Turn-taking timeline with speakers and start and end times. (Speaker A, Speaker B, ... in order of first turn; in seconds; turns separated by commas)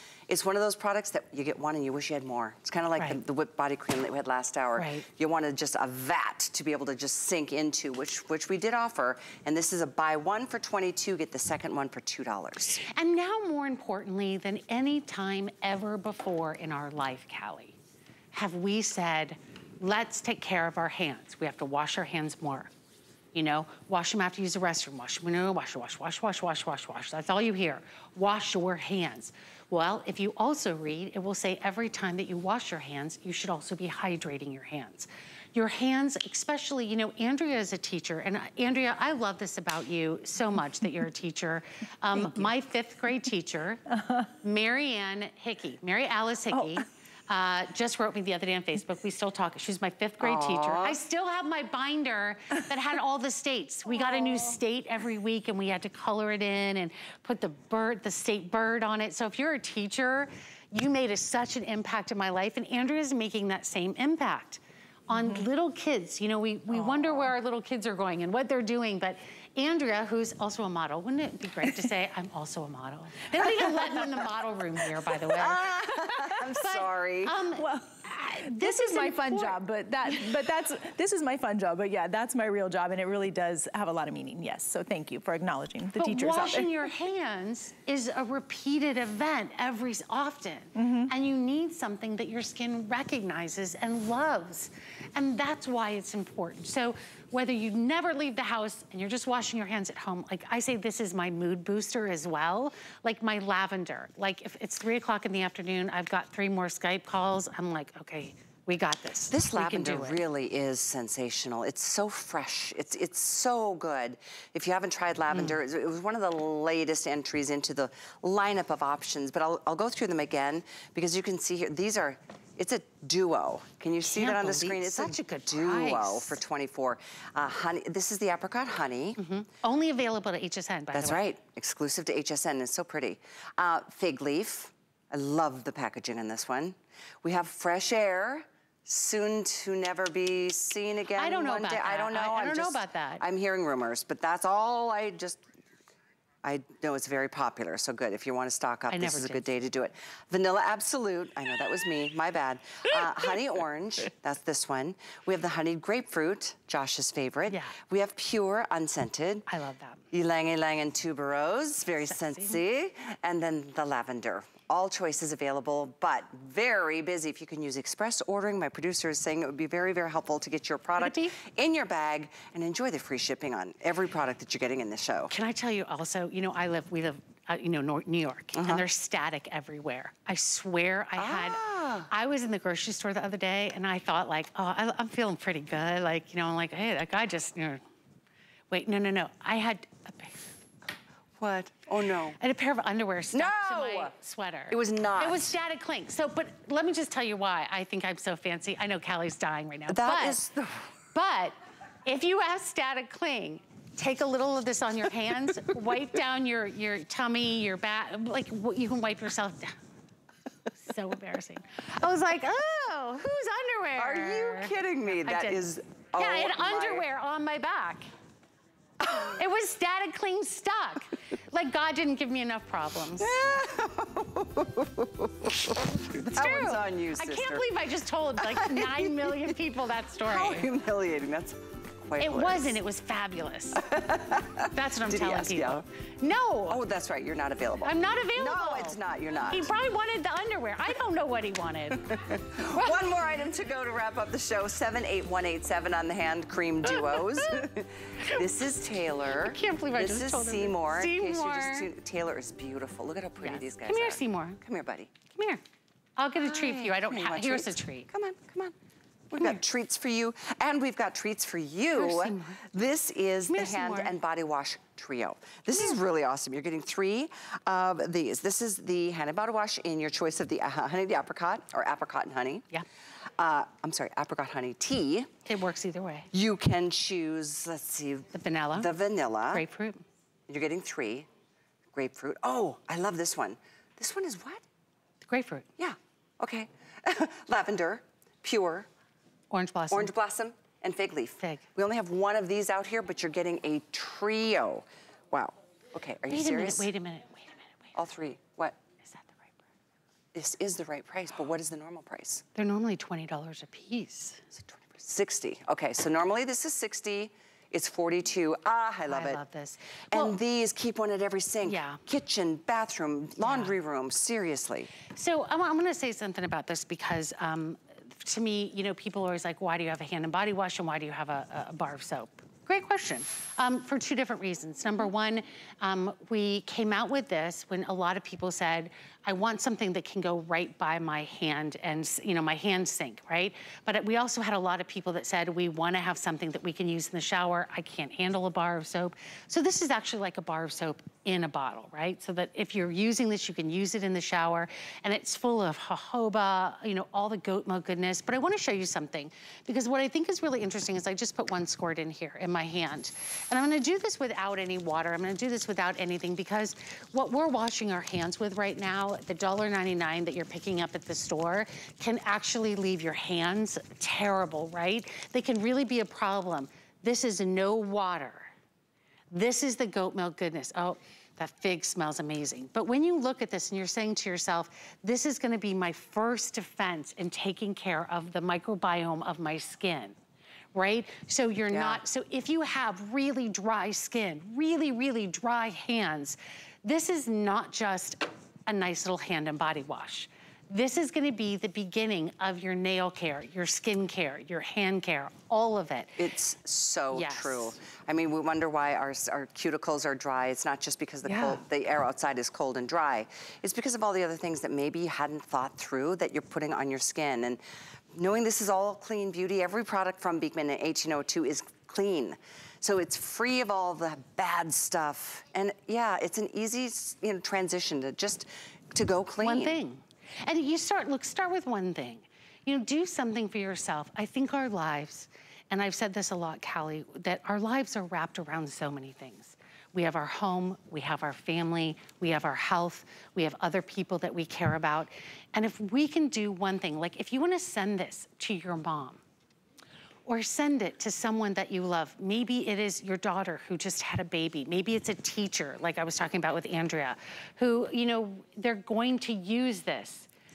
Speaker A: 0.3-12.8, Speaker B: 4.8-5.0, Speaker B: 12.8-17.7, Speaker B: 18.3-22.7, Speaker B: 23.3-43.8, Speaker C: 42.1-42.5, Speaker B: 44.4-77.8, Speaker A: 50.2-51.0, Speaker C: 65.1-65.4, Speaker A: 75.2-77.3, Speaker C: 77.5-86.9, Speaker B: 78.3-79.6, Speaker B: 86.0-110.2, Speaker C: 90.8-91.1, Speaker A: 109.3-129.2, Speaker B: 124.0-126.4, Speaker B: 129.2-131.2, Speaker A: 130.9-145.4, Speaker B: 141.2-143.2, Speaker A: 146.4-159.4, Speaker B: 148.9-149.4, Speaker B: 157.5-157.8, Speaker B: 159.5-160.0, Speaker A: 160.1-175.3, Speaker B: 162.1-162.6, Speaker B: 171.0-171.3, Speaker B: 175.3-187.8, Speaker A: 178.6-178.8, Speaker A: 181.2-182.1, Speaker B: 188.7-190.4, Speaker A: 191.4-192.4, Speaker B: 192.4-200.4, Speaker A: 193.3-194.1, Speaker A: 194.7-195.5, Speaker A: 199.9-200.9, Speaker B: 201.1-209.8, Speaker B: 210.8-218.1, Speaker A: 214.0-217.0, Speaker A: 219.0-219.3, Speaker B: 219.1-223.3, Speaker A: 223.2-227.6, Speaker B: 225.6-230.7, Speaker A: 228.4-229.5, Speaker A: 230.2-232.8, Speaker B: 232.2-233.8, Speaker A: 233.8-235.8, Speaker B: 234.7-236.8, Speaker A: 236.7-239.7, Speaker B: 237.8-243.0, Speaker A: 242.2-255.1, Speaker B: 246.8-247.7, Speaker B: 249.4-251.9, Speaker B: 253.4-254.6, Speaker B: 255.3-255.6, Speaker B: 256.2-258.1, Speaker A: 256.4-258.7, Speaker A: 259.3-272.7, Speaker B: 261.9-262.6, Speaker B: 263.5-264.1, Speaker A: 273.4-275.3, Speaker B: 275.5-276.3, Speaker A: 276.3-279.6, Speaker B: 278.3-278.9, Speaker B: 279.5-280.0, Speaker A: 280.5-281.3, Speaker A: 281.9-284.6, Speaker B: 285.2-285.7, Speaker A: 285.8-288.9, Speaker B: 289.5-290.1, Speaker A: 289.9-296.9, Speaker B: 296.3-297.9, Speaker A: 297.9-298.8, Speaker B: 299.0-299.5, Speaker A: 300.3-302.4, Speaker B: 302.6-304.4, Speaker A: 304.7-309.4, Speaker B: 309.1-310.4, Speaker A: 310.1-314.9, Speaker B: 311.6-312.0, Speaker B: 313.4-313.7, Speaker B: 315.1-368.5, Speaker B: 369.3-380.1, Speaker B: 380.7-396.2, Speaker A: 381.7-382.0, Speaker A: 396.2-407.6, Speaker B: 397.1-397.7, Speaker B: 401.2-401.6, Speaker A: 408.1-419.8, Speaker B: 419.4-439.2, Speaker B: 440.3-450.3